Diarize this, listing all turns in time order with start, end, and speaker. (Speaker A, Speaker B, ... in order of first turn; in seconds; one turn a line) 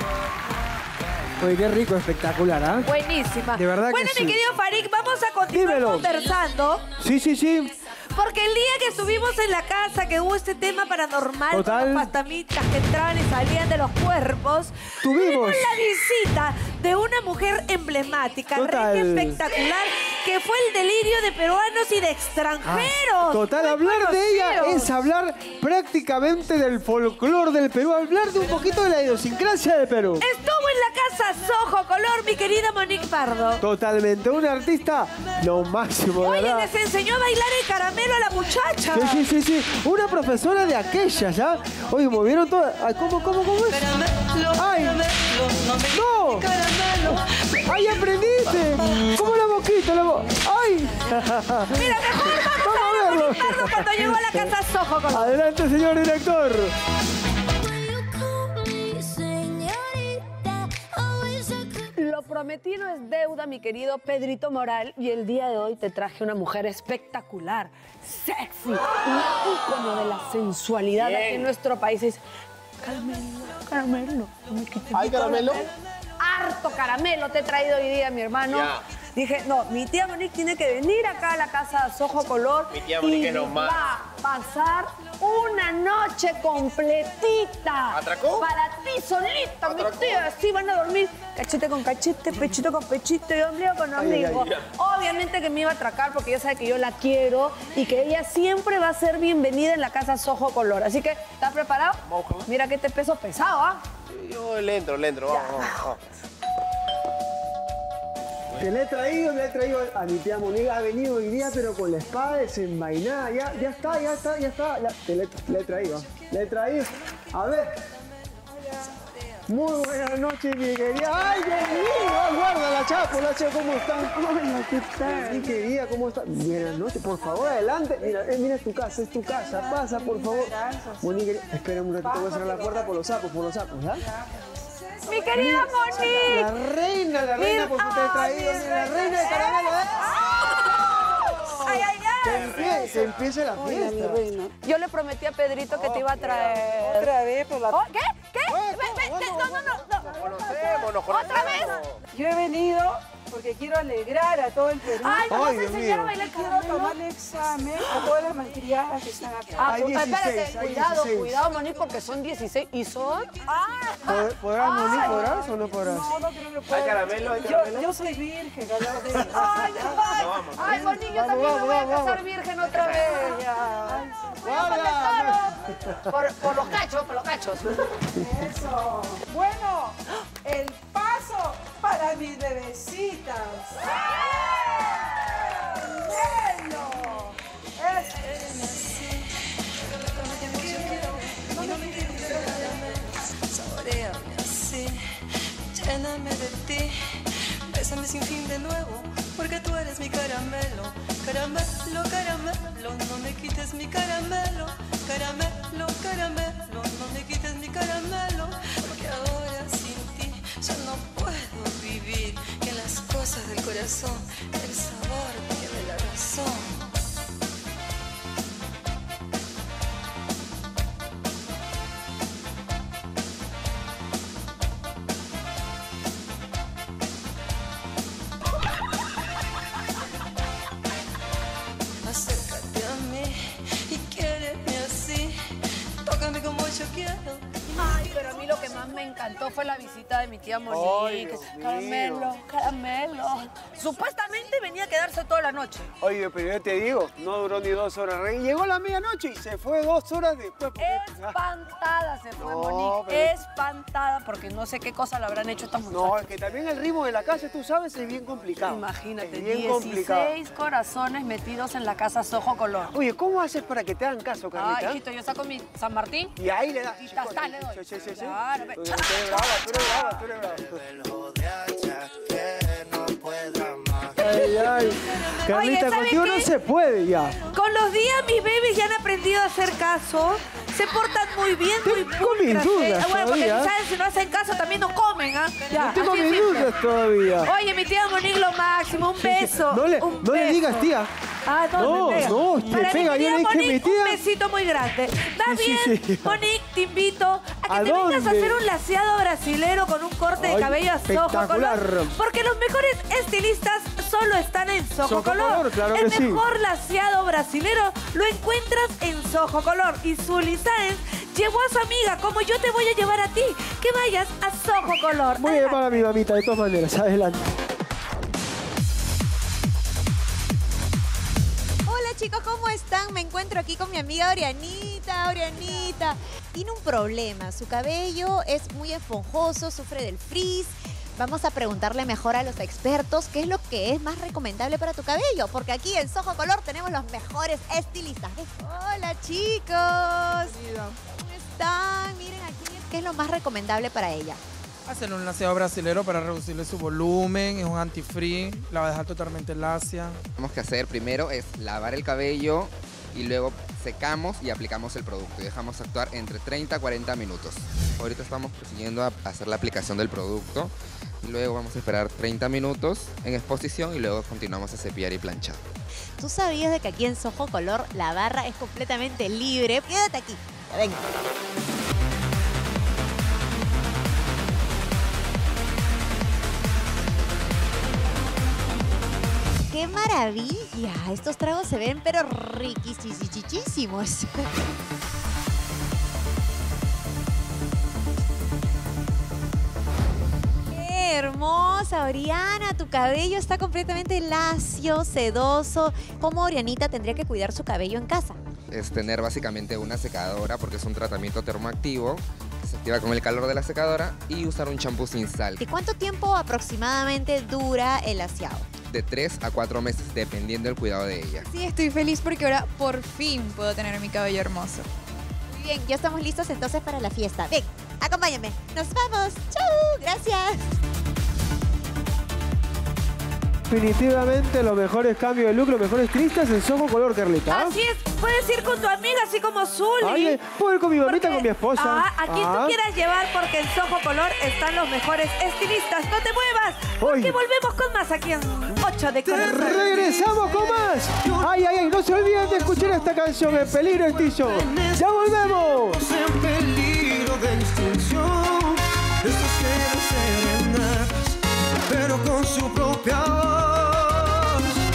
Speaker A: 1.4-2.9
Speaker B: 2.9-6.8
Speaker A: 3.5-4.4
Speaker A: 5.5-6.1
Speaker A: 7.0-7.7
Speaker B: 8.1-24.9
Speaker A: 11.5-12.1
Speaker A: 15.0-15.8
Speaker A: 18.6-19.4
Speaker A: 22.6-30.3
Speaker B: 30.2-33.6
Speaker A: 33.6-36.7
Speaker B: 36.2-39.2
Speaker A: 38.9-43.8
Speaker C: 43.7-49.2
Speaker A: 44.5-45.0
Speaker A: 45.9-46.5
Speaker A: 47.7-54.5
Speaker B: 51.7-55.4
Speaker A: 55.1-56.7
Speaker D: 57.6-61.9
Speaker E: 62.0-72.2
Speaker F: 71.0-71.5
Speaker E: 72.8-103.8
Speaker F: 74.9-75.7
Speaker G: 75.3-75.5
Speaker F: 78.5-78.8
Speaker F: 82.7-83.9
Speaker G: 83.2-83.9
Speaker F: 87.9-88.5
Speaker F: 89.6-90.3
Speaker A: 94.0-94.5
Speaker F: 102.1-102.5
Speaker F: 104.1-106.0
Speaker G: 105.5-105.8
Speaker A: 108.6-117.7
Speaker A: 119.5-134.1
Speaker H: 124.3-125.4
Speaker H: 129.5-131.1
Speaker H: 132.0-132.8
Speaker H: 134.2-136.0
Speaker B: 135.1-136.5
Speaker A: 135.3-140.2
Speaker B: 137.4-142.6
Speaker A: 142.2-144.3
Speaker F: 142.4-143.1
Speaker H: 143.6-144.5
Speaker E: 144.6-147.2
Speaker A: 145.8-146.2
Speaker H: 146.3-147.8
Speaker B: 147.8-150.1
Speaker A: 148.5-150.4
Speaker F: 150.2-152.0
Speaker H: 150.2-151.0
Speaker B: 151.1-151.8
Speaker E: 151.2-151.8
Speaker G: 151.2-151.7
Speaker H: 152.1-155.5
Speaker E: 155.0-156.9
Speaker A: 155.3-156.1
Speaker H: 156.2-160.0
Speaker A: 159.6-161.3
Speaker E: 159.6-163.9
Speaker B: 163.5-164.8
Speaker A: 164.1-166.1
Speaker E: 164.6-165.2
Speaker H: 165.0-165.3
Speaker H: 165.8-169.9
Speaker F: 166.7-167.8
Speaker E: 169.3-173.4
Speaker F: 170.0-170.9
Speaker G: 170.1-170.9
Speaker A: 170.6-172.2
Speaker H: 172.9-175.6
Speaker A: 173.9-176.1
Speaker E: 174.6-175.3
Speaker E: 176.1-177.8
Speaker H: 178.2-184.0
Speaker H: 185.1-188.1
Speaker C: 188.2-189.4
Speaker C: 190.0-195.2
Speaker C: 195.7-216.9
Speaker C: 232.0-235.4
Speaker C: 236.0-237.4
Speaker E: 237.8-245.9
Speaker A: 240.7-242.3
Speaker A: 246.0-251.4
Speaker E: 250.8-256.2
Speaker A: 252.4-253.3
Speaker A: 255.9-260.3
Speaker E: 258.6-262.9
Speaker A: 262.9-265.0
Speaker E: 264.6-266.3
Speaker A: 266.4-271.0
Speaker E: 267.0-270.2
Speaker A: 274.1-277.4
Speaker B: 275.3-276.5
Speaker B: 277.5-286.7
Speaker A: 281.9-283.7
Speaker A: 285.7-287.5
Speaker B: 287.4-290.9
Speaker A: 289.2-291.1
Speaker B: 291.4-315.8
Speaker A: 291.8-294.2
Speaker A: 295.4-296.4
Speaker A: 297.7-298.6
Speaker A: 300.4-302.1
Speaker A: 305.1-306.4
Speaker A: 315.4-317.4
Speaker I: 321.9-340.6
Speaker J: 340.5-341.0
Speaker I: 341.1-344.4
Speaker J: 344.9-350.2
Speaker K: 350.4-365.6
Speaker I: 366.2-371.0
Speaker I: 379.7-384.3
Speaker I: 390.7-398.4
Speaker K: 398.7-405.6
Speaker I: 405.6-408.7
Speaker K: 408.9-411.5
Speaker D: 411.4-414.9
Speaker I: 415.5-420.6
Speaker A: 423.7-427.8
Speaker B: 427.5-430.4
Speaker A: 430.0-432.8
Speaker B: 431.0-439.9
Speaker A: 437.0-437.4
Speaker A: 439.2-446.0
Speaker G: 439.9-440.6
Speaker G: 442.4-442.7
Speaker G: 444.4-451.1
Speaker G: 451.9-453.7
Speaker A: 453.5-454.5